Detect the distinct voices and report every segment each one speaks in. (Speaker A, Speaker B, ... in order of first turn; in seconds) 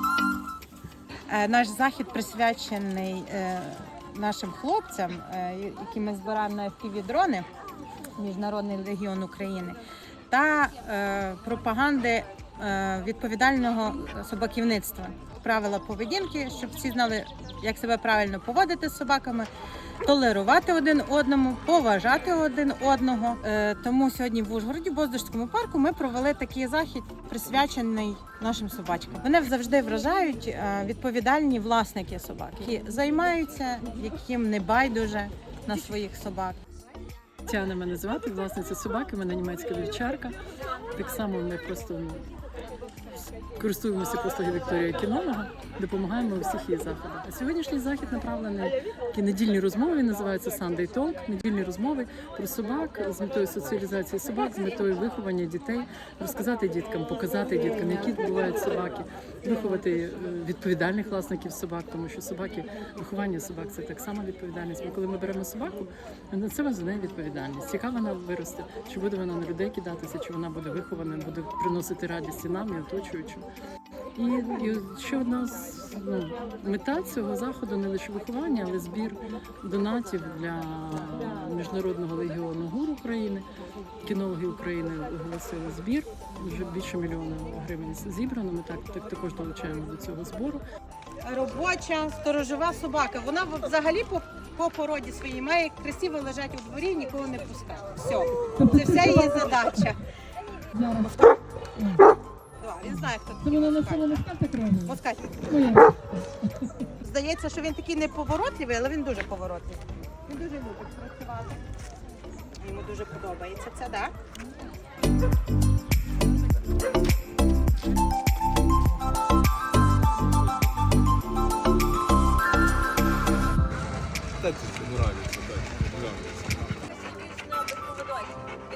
Speaker A: 1.3-7.5, 8.2-19.5, 20.0-36.6, 91.2-100.0, 102.6-104.1, 104.8-105.6, 106.9-111.6, 112.6-114.1
Speaker B: 37.5-40.4, 40.9-42.3, 43.6-73.5, 74.2-83.5, 84.0-90.6
Speaker C: 98.6-99.8, 100.7-101.2, 101.8-102.1, 103.4-105.0, 105.5-106.7
Speaker D: 124.4-126.5